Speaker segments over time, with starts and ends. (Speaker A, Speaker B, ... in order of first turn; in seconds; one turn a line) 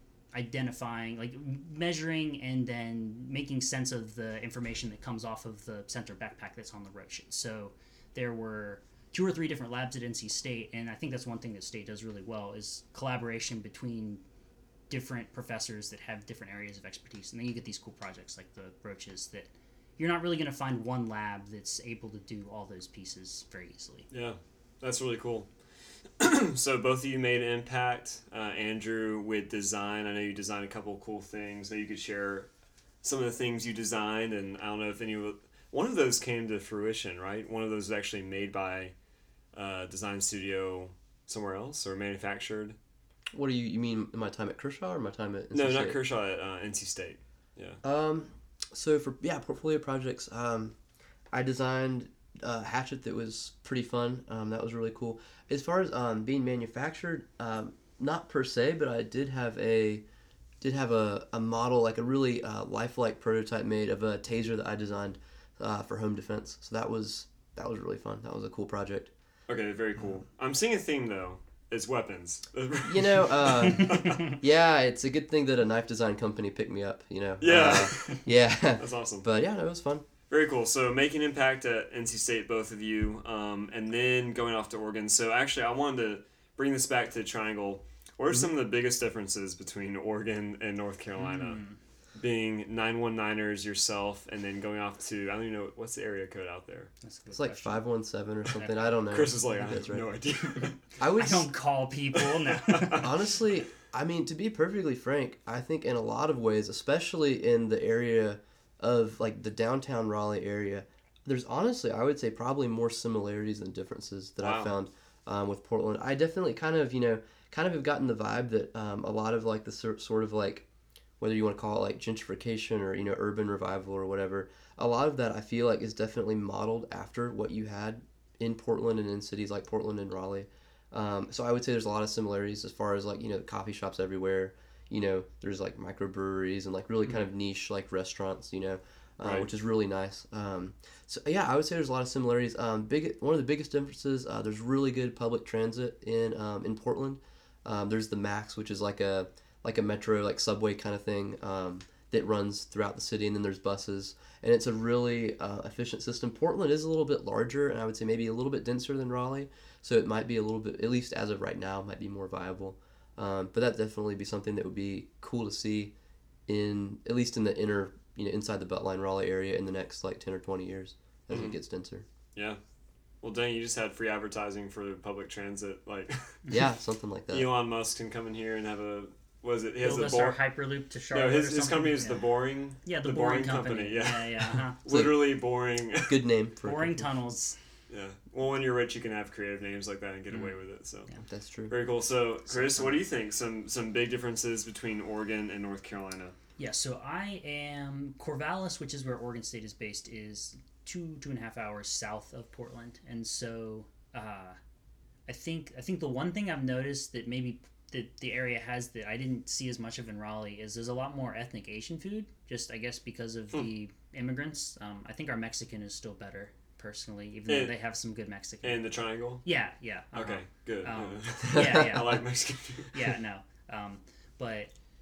Speaker A: 0.3-14.2
Speaker A: 14.9-24.1
Speaker B: 24.1-25.5
Speaker B: 26.2-32.5
Speaker B: 33.0-38.9
Speaker B: 39.5-42.8
Speaker C: 43.3-46.0
Speaker B: 45.5-47.8
Speaker C: 47.8-50.8
Speaker C: 51.3-60.0
Speaker C: 60.6-69.1
Speaker B: 69.5-74.2
Speaker C: 72.8-80.0
Speaker B: 77.4-79.3
Speaker B: 80.3-91.6
Speaker A: 91.2-91.8
Speaker B: 92.1-96.9
Speaker A: 97.0-97.8
Speaker C: 97.3-100.1
Speaker B: 99.1-100.8
Speaker C: 101.0-101.5
Speaker A: 101.1-103.0
Speaker B: 102.1-103.1
Speaker C: 102.9-120.7
Speaker B: 114.4-114.7
Speaker C: 121.2-165.9
Speaker B: 139.2-139.5
Speaker C: 166.5-172.0
Speaker B: 171.3-171.6
Speaker B: 173.2-176.4
Speaker C: 176.5-177.5
Speaker B: 177.3-180.4
Speaker A: 179.8-184.8
Speaker B: 181.1-186.2
Speaker C: 184.9-185.2
Speaker C: 186.1-187.1
Speaker A: 186.6-187.6
Speaker B: 187.9-191.1
Speaker C: 191.2-191.7
Speaker B: 191.7-196.3
Speaker A: 192.5-193.0
Speaker A: 196.6-204.6
Speaker A: 205.3-218.8
Speaker B: 217.5-217.7
Speaker B: 218.6-219.4
Speaker A: 219.4-222.2
Speaker B: 220.1-223.1
Speaker C: 221.4-222.1
Speaker A: 222.9-224.7